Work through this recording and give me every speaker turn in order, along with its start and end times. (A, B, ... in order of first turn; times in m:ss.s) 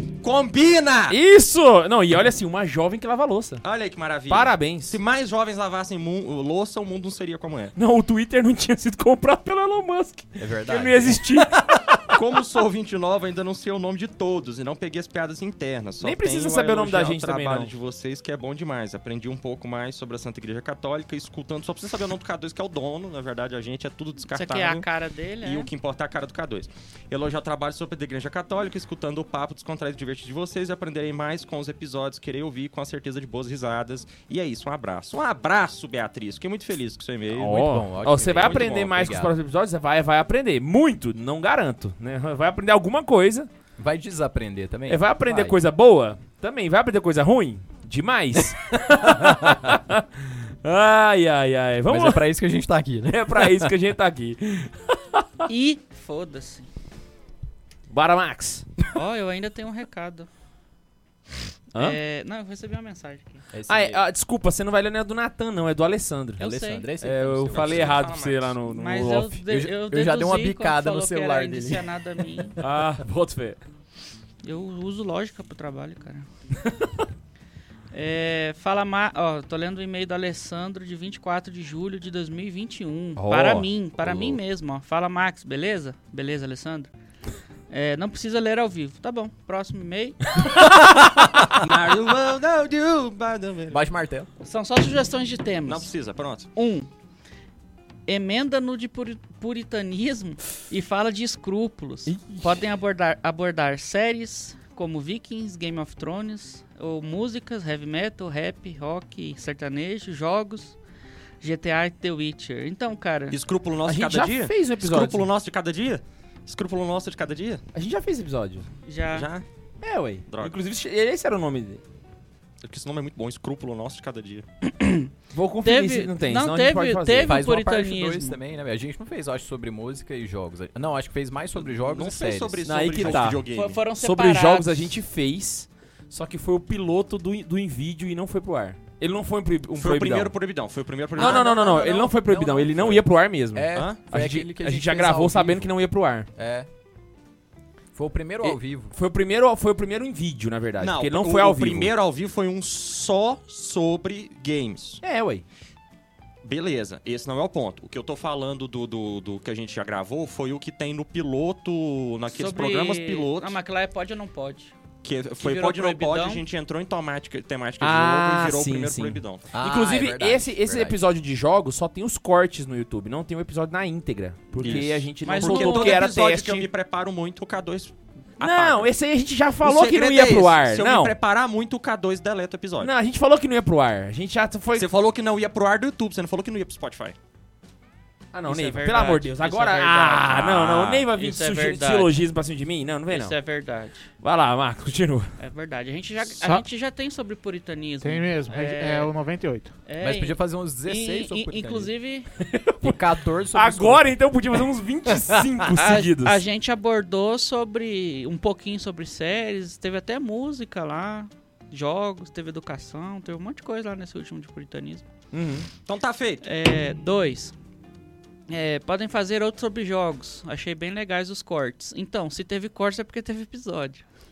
0:00.2-0:01.2 A
0:01.1-0:03.6 B
0:03.6-0:07.8 A
0:04.3-0:05.0 B
0:07.8-0:12.2 B
0:10.4-0:11.2 C
0:12.1-0:24.9 A
0:16.0-0:17.7 B
0:24.3-0:25.7 D
0:25.4-0:37.5 A
0:37.3-0:39.3 C
0:37.4-0:43.5 B
0:38.3-0:39.1 A
0:43.8-0:45.6 C
0:44.9-0:52.2 B
0:49.2-0:49.5 C
0:51.9-0:53.7 C
0:53.1-0:55.4 B
0:55.5-0:56.7 D
0:57.9-0:58.8 B
0:58.9-1:00.3 D
1:01.7-1:02.0 B
1:01.8-1:03.4 D
1:03.5-1:04.0 C
1:03.7-1:09.4 B
1:06.4-1:08.1 C
1:06.4-1:06.9 D
1:07.5-1:08.6 A
1:08.7-1:12.6 D
1:09.5-1:11.9 C
1:12.6-1:13.6 B
1:14.4-1:16.3 D
1:17.9-1:26.9 D
1:23.2-1:24.3 B
1:27.7-1:30.3 D
1:31.6-1:33.8 A
1:33.7-1:34.3 C
1:34.4-1:35.9 D
1:35.7-1:36.5 A
1:36.6-1:36.9 D
1:38.1-1:50.8 D
1:42.1-1:42.5 B
1:51.4-1:53.4 D
1:53.3-1:57.6 A
1:53.9-1:55.3 B
1:57.8-1:58.7 B
1:58.8-1:59.3 D
1:59.1-1:59.4 A
1:59.8-2:01.8 B
2:00.3-2:00.6 A
2:02.6-2:04.4 A
2:04.6-2:05.1 D
2:05.3-2:07.4 B
2:05.6-2:08.4 D
2:07.2-2:13.2 C
2:11.7-2:13.8 A
2:12.6-2:20.3 B
2:13.5-2:14.8 D
2:19.8-2:21.4 A
2:21.2-2:26.3 B
2:21.2-2:25.7 C
2:23.7-2:24.0 A
2:26.4-2:26.7 C
2:27.9-2:29.0 C
2:28.4-2:31.9 B
2:30.8-2:35.0 A
2:35.0-2:35.4 B
2:36.4-2:43.6 A
2:42.3-2:44.7 D
2:45.0-2:49.4 A
2:45.4-2:46.4 D
2:47.8-2:56.7 B
2:49.5-2:51.0 C
2:54.6-2:58.9 A
2:54.7-2:56.0 D
2:58.4-3:01.2 B
2:59.6-3:02.9 A
3:02.8-3:04.9 B
3:04.8-3:07.2 A
3:08.3-3:13.3 B
3:08.5-3:10.5 D
3:10.2-3:11.1 A
3:11.1-3:12.2 D
3:13.1-3:14.1 D
3:14.2-3:15.3 B
3:15.4-3:19.1 D
3:16.3-3:16.6 E
3:18.0-3:19.8 E
3:19.9-3:22.3 D
3:20.0-3:21.9 C
3:22.4-3:23.0 B
3:22.8-3:24.1 C
3:23.5-3:26.4 B
3:25.2-3:25.6 C
3:25.8-3:35.1 D
3:35.3-3:35.7 B
3:35.9-3:36.4 A
3:36.4-3:37.6 D
3:38.5-3:44.0 D